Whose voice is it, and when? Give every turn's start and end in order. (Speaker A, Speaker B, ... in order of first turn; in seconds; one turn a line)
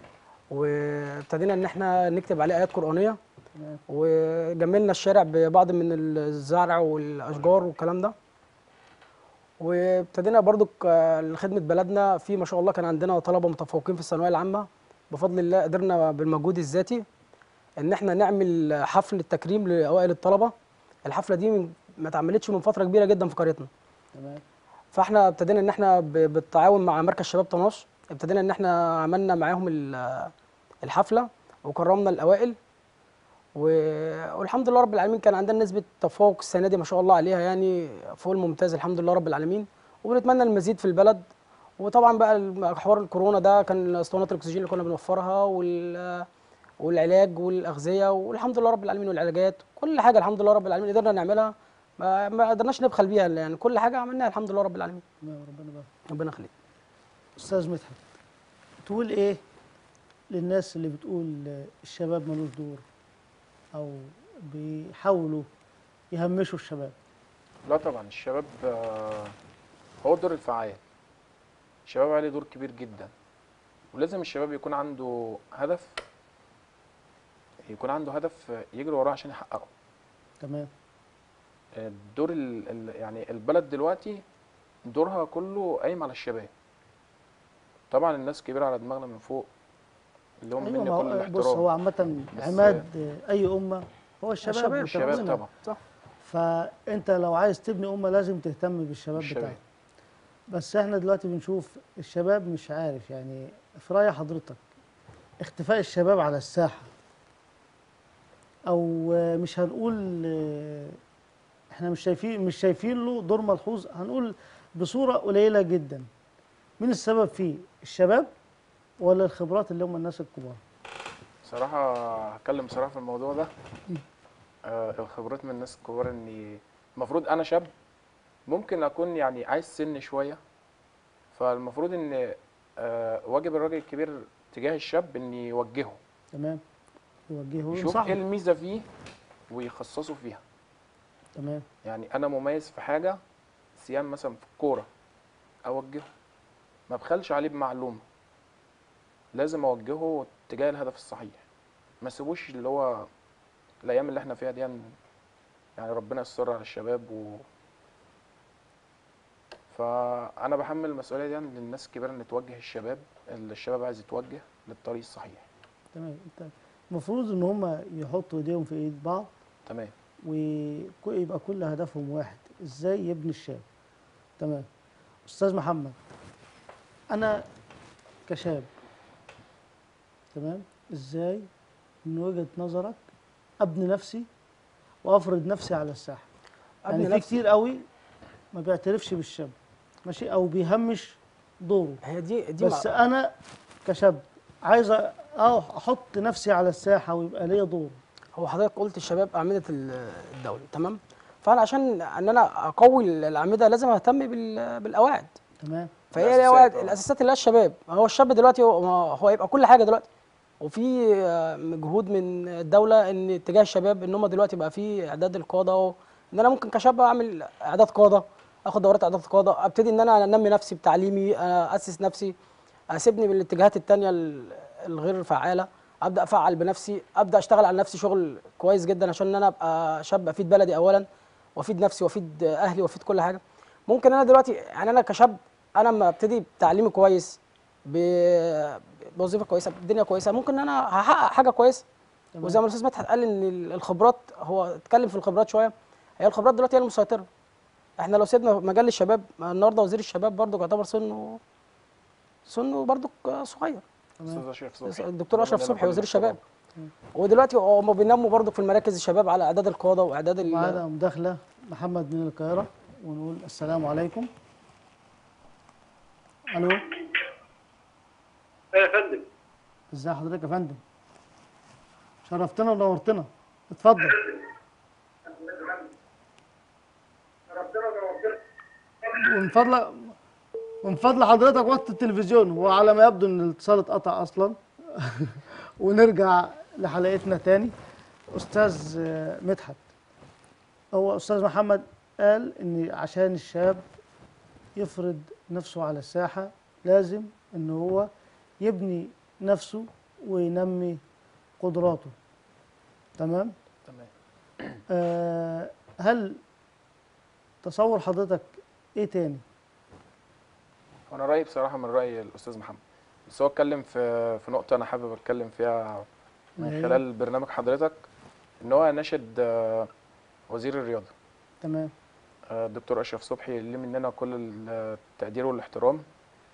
Speaker A: 0.5-3.2
Speaker B: 3.5-3.8
Speaker A: 3.9-8.1
Speaker A: 9.6-17.0
Speaker A: 17.8-20.5
Speaker A: 21.1-23.7
Speaker B: 24.1-24.4
Speaker A: 24.9-30.3
Speaker A: 30.8-32.6
Speaker A: 33.5-41.3
Speaker A: 41.8-46.2
Speaker A: 46.8-55.0
Speaker B: 55.2-55.9
Speaker A: 56.1-56.5
Speaker B: 57.4-58.0
Speaker B: 58.8-59.4
Speaker B: 60.3-62.8
Speaker B: 63.7-65.5
Speaker B: 66.1-67.0
Speaker C: 67.7-69.3
Speaker C: 70.0-70.8
Speaker C: 71.9-73.1
Speaker C: 73.9-75.9
Speaker C: 77.7-79.7
Speaker B: 80.4-80.7
Speaker C: 81.8-84.2
Speaker C: 84.9-86.5
Speaker C: 87.9-89.5
Speaker C: 90.4-91.6
Speaker B: 90.6-95.4
Speaker C: 92.3-92.8
Speaker A: 94.4-95.8
Speaker C: 94.9-95.5
Speaker B: 96.2-99.6
Speaker C: 99.2-99.6
Speaker B: 100.5-104.6
Speaker B: 105.4-106.9
Speaker B: 108.7-111.0
Speaker B: 111.7-116.0
Speaker B: 116.8-118.3
Speaker B: 119.0-120.6
Speaker C: 121.4-123.5
Speaker C: 124.7-127.7
Speaker C: 128.5-130.4
Speaker C: 131.3-136.0
Speaker B: 136.3-136.6
Speaker B: 137.3-138.2
Speaker C: 137.7-138.8
Speaker C: 139.5-140.4
Speaker B: 141.3-141.6
Speaker C: 141.8-143.2
Speaker C: 143.8-144.9
Speaker C: 145.7-146.1
Speaker C: 146.9-148.0
Speaker C: 149.3-151.4
Speaker C: 152.0-153.1
Speaker C: 153.8-154.9
Speaker C: 155.8-157.4
Speaker C: 159.7-165.5
Speaker B: 165.9-169.3
Speaker C: 169.7-169.9
Speaker B: 170.2-173.6
Speaker B: 174.4-174.7
Speaker B: 175.2-175.9
Speaker B: 177.1-177.4
Speaker B: 178.3-178.7
Speaker B: 180.3-181.4
Speaker B: 182.1-183.0
Speaker B: 183.6-184.3
Speaker B: 185.0-186.2
Speaker A: 186.8-187.4
Speaker B: 186.9-187.8
Speaker B: 188.5-189.5
Speaker B: 190.1-192.0
Speaker A: 192.0-192.9
Speaker B: 192.6-193.3
Speaker B: 193.8-198.0
Speaker A: 198.3-205.3
Speaker B: 205.6-206.0
Speaker A: 206.1-210.0
Speaker C: 206.2-207.0
Speaker A: 210.6-222.3
Speaker A: 222.9-231.0
Speaker A: 231.6-241.8
Speaker B: 242.3-242.6
Speaker A: 242.4-247.2
Speaker A: 248.0-251.4
Speaker A: 252.4-253.8
Speaker C: 254.3-256.4
Speaker A: 254.8-256.4
Speaker A: 257.2-260.8
Speaker B: 260.4-264.3
Speaker B: 266.5-266.8
Speaker B: 269.9-270.8
Speaker B: 272.2-274.3
Speaker B: 277.6-278.3
Speaker B: 279.1-280.1
Speaker B: 280.8-287.7
Speaker B: 288.3-289.8
Speaker B: 290.9-293.9
Speaker B: 294.8-298.1
Speaker B: 298.6-301.0
Speaker B: 301.6-302.1
Speaker B: 303.2-303.5
Speaker B: 304.9-306.4
Speaker B: 307.6-309.4
Speaker C: 311.1-316.0
Speaker B: 316.6-317.0
Speaker C: 316.6-318.0
Speaker C: 318.6-319.9
Speaker C: 320.5-321.1
Speaker B: 321.6-321.9
Speaker C: 322.5-326.0